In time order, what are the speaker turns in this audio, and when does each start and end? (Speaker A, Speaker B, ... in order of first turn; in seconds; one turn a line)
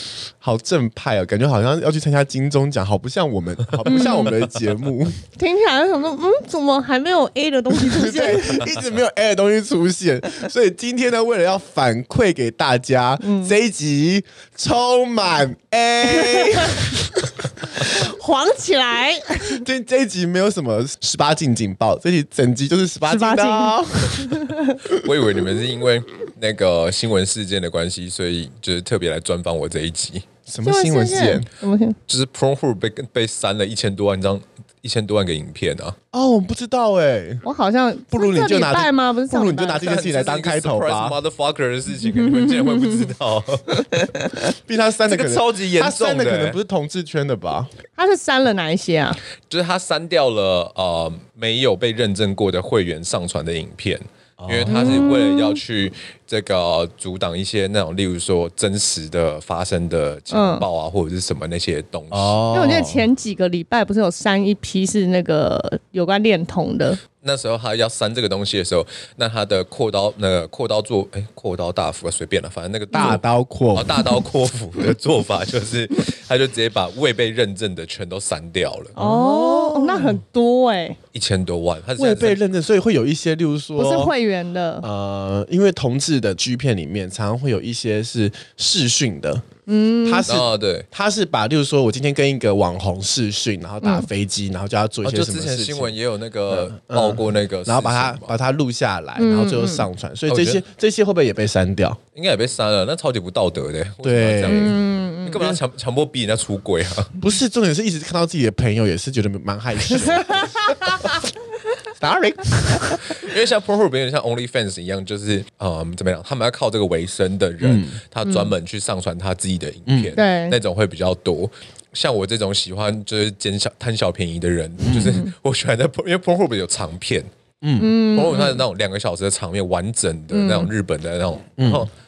Speaker A: 0.4-5.2
Speaker B: 3.9-4.3
Speaker B: 5.3-8.7
Speaker A: 7.7-18.0
Speaker B: 13.2-13.5
Speaker B: 16.1-16.9
Speaker B: 17.8-19.6
Speaker A: 19.5-24.9
Speaker B: 23.1-24.8
Speaker C: 24.9-30.3
Speaker A: 30.5-31.5
Speaker B: 30.6-32.0
Speaker C: 32.1-36.0
Speaker A: 36.1-37.4
Speaker B: 37.4-39.8
Speaker A: 38.1-41.2
Speaker C: 39.8-44.1
Speaker B: 42.0-43.1
Speaker B: 43.9-44.4
Speaker A: 44.5-47.7
Speaker C: 45.0-46.6
Speaker B: 48.0-49.2
Speaker C: 49.5-62.4
Speaker A: 54.4-55.1
Speaker B: 54.6-55.6
Speaker B: 60.3-60.6
Speaker A: 62.1-63.0
Speaker B: 62.5-67.0
Speaker C: 67.2-73.2
Speaker A: 72.9-74.2
Speaker C: 73.7-78.9
Speaker A: 78.9-80.2
Speaker B: 78.9-81.0
Speaker C: 81.1-82.4
Speaker A: 82.0-84.1
Speaker B: 83.8-84.9
Speaker A: 84.8-89.5
Speaker B: 89.7-90.3
Speaker A: 90.0-95.9
Speaker C: 90.2-90.9
Speaker C: 95.0-98.3
Speaker A: 96.5-102.0
Speaker B: 99.2-99.9
Speaker C: 100.3-100.6
Speaker C: 102.1-107.2
Speaker A: 104.0-104.8
Speaker B: 104.5-105.4
Speaker A: 107.2-111.2
Speaker B: 110.1-111.0
Speaker A: 112.0-113.2
Speaker C: 113.1-127.3
Speaker A: 117.6-118.0
Speaker B: 118.2-118.5
Speaker A: 119.9-120.1
Speaker B: 120.1-120.6
Speaker A: 124.8-125.2
Speaker A: 127.6-127.9
Speaker B: 127.8-128.6
Speaker C: 128.0-131.9
Speaker B: 130.3-130.7
Speaker A: 131.6-131.9